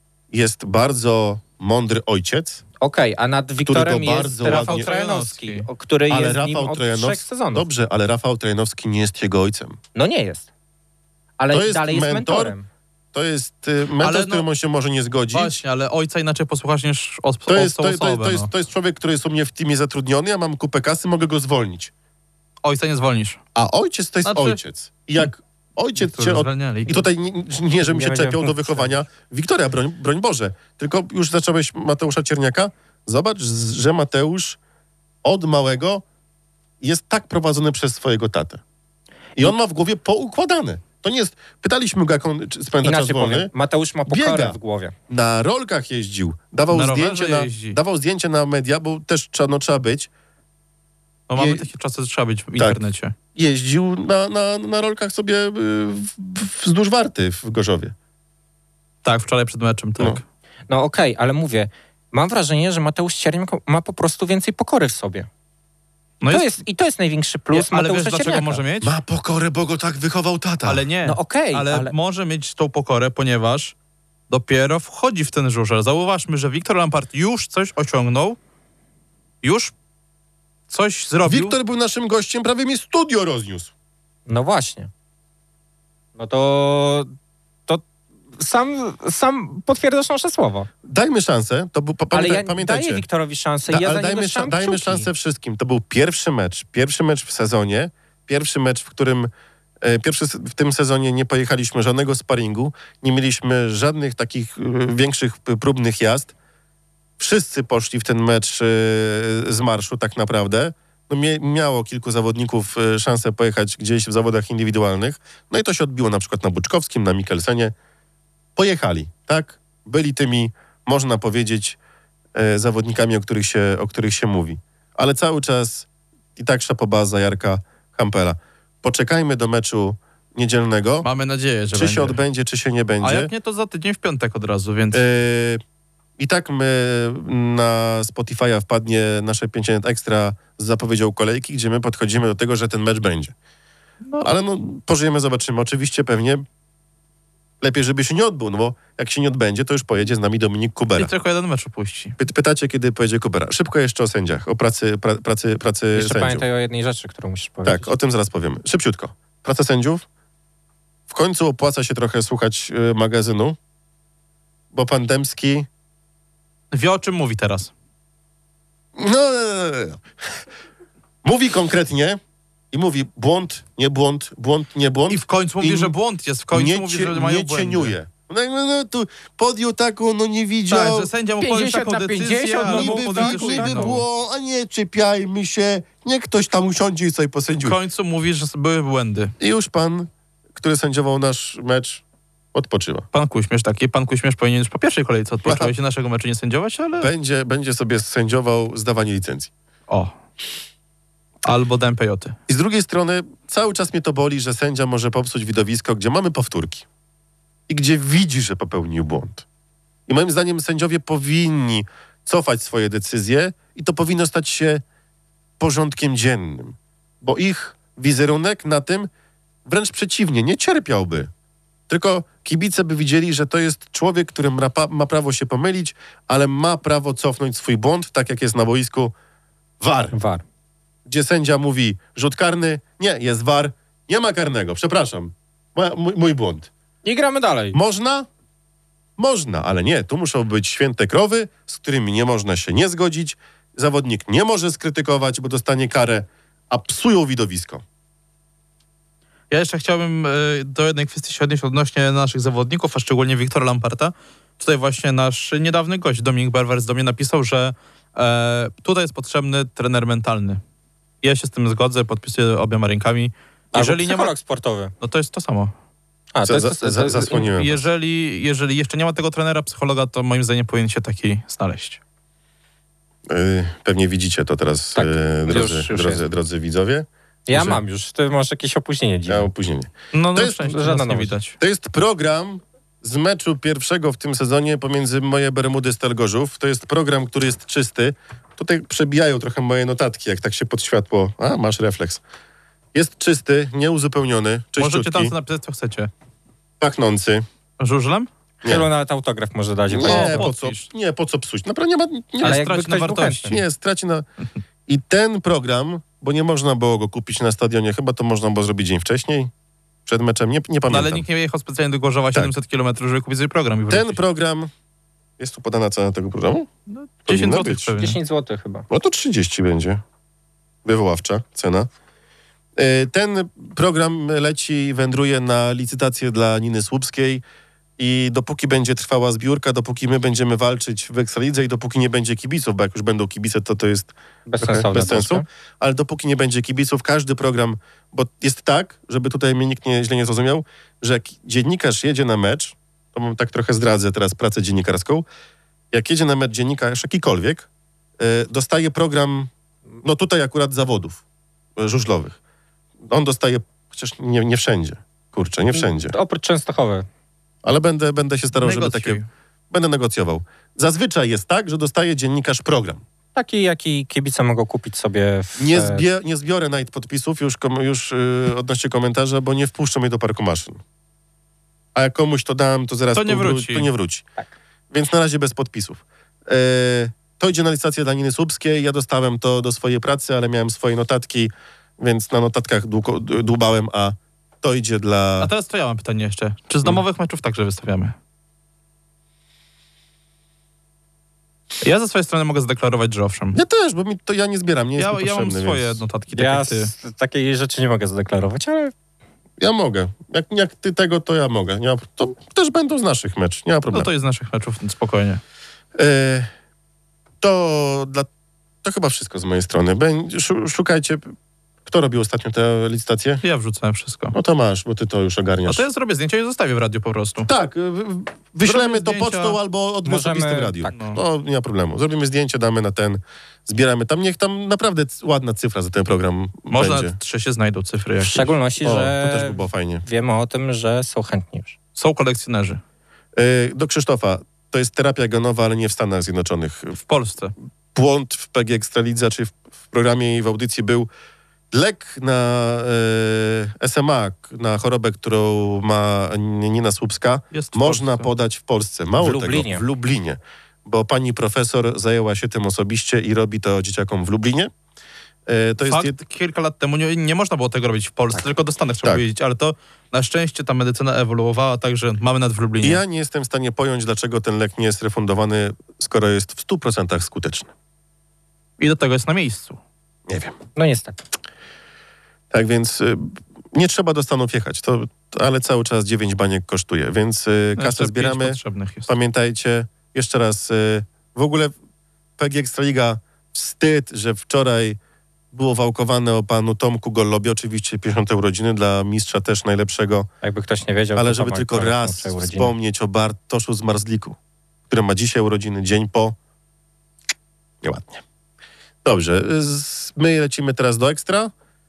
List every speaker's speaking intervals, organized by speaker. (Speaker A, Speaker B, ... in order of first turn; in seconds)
Speaker A: 0.3-2.6, 3.6-4.9, 6.1-9.8, 11.5-12.5, 13.1-15.6, 17.5-21.9, 23.5-34.6, 35.2-36.0, 36.8-38.6, 39.4-43.5, 44.0-44.6, 45.1-50.1, 51.4-51.7, 53.3-57.9, 68.8-70.8, 81.2-83.7, 90.8-93.0, 93.7-99.3, 99.8-106.3, 107.2-117.7, 118.5-121.8, 122.3-131.1, 131.7-133.3, 134.9-135.6, 136.2-143.3, 144.2-146.4, 147.6-151.1, 152.2-156.4, 157.6-160.0, 161.1-163.6, 164.7-165.7, 168.9-170.0, 171.2-172.2, 172.7-175.9, 176.5-181.1, 182.6-187.8, 189.4-192.0, 192.5-193.1, 195.4-195.7, 197.0-199.5, 202.5-206.8, 207.7-209.4, 210.1-214.8, 215.6-219.1, 219.6-221.3, 221.9-229.1, 229.8-230.2, 231.1-236.7, 237.7-238.3, 239.2-247.8, 266.4-267.8, 273.3-277.8, 279.3-280.5, 281.6-292.2, 292.9-295.3, 296.8-297.4, 299.9-302.6, 303.5-304.2, 304.9-309.5, 310.1-311.2, 313.9-314.7, 315.4-316.7, 317.2-317.9, 318.9-320.0, 320.8-321.9, 322.8-327.4, 328.0-345.2, 345.9-347.7, 348.2-349.5, 350.0-351.2, 351.8-352.4, 353.1-356.1, 357.6-359.2, 359.7-363.0, 365.6-370.8, 371.9-374.2, 374.9-385.5, 393.5-396.0, 399.6-404.1, 405.9-406.5, 407.4-408.3, 408.8-411.3, 411.8-413.4, 414.3-415.8, 417.4-427.1, 428.8-430.0, 433.3-437.0, 437.9-441.1, 441.7-454.7, 455.5-456.1, 462.8-467.7, 470.3-470.6, 472.5-481.7, 482.4-485.0, 485.5-490.3, 491.1-494.4, 494.9-496.4, 497.8-498.2, 499.0-501.5
Speaker B: 2.8-7.7, 9.9-10.5, 11.4-12.6, 27.8-28.9, 42.8-44.9, 60.7-65.3, 66.3-68.6, 71.0-71.9, 84.3-84.9, 86.2-87.1, 88.4-90.7, 92.1-95.1, 155.9-157.9, 181.4-184.0, 230.1-230.4, 237.0-237.8, 263.7-264.9, 266.3-267.4, 274.9-276.2, 277.5-279.5, 280.5-281.3, 298.6-300.4, 302.4-303.6, 317.9-318.9, 334.5-335.4, 355.7-357.1, 363.3-366.0, 396.3-398.9, 420.0-420.9, 428.2-431.8, 449.2-449.8, 470.7-471.2, 490.4-492.7
Speaker C: 4.4-5.7, 14.0-14.4, 15.3-18.5, 22.6-23.4, 24.2-24.6, 26.0-27.0, 46.7-47.8, 51.3-53.1, 59.0-60.2, 66.2-66.5, 67.5-68.9, 70.6-73.7, 74.3-78.4, 79.4-79.7, 80.7-81.5, 131.0-132.2, 133.0-135.0, 151.0-152.2, 166.7-167.7, 175.1-177.9, 180.7-184.0, 187.6-189.3, 193.1-197.1, 199.9-200.1, 201.4-202.4, 249.5-260.6, 261.2-264.3, 265.0-265.7, 267.3-272.0, 280.1-281.6, 294.8-296.1, 297.8-298.3, 300.0-300.9, 302.4-303.6, 310.9-314.2, 316.9-318.2, 358.6-359.3, 373.1-373.9, 385.4-388.1, 391.8-393.6, 395.0-396.9, 403.9-405.4, 413.4-414.3, 415.6-417.5, 418.6-419.6, 420.9-421.2, 426.7-428.5, 431.9-432.8, 437.0-437.5, 447.5-448.3, 455.8-463.0, 468.8-469.8, 477.8-479.1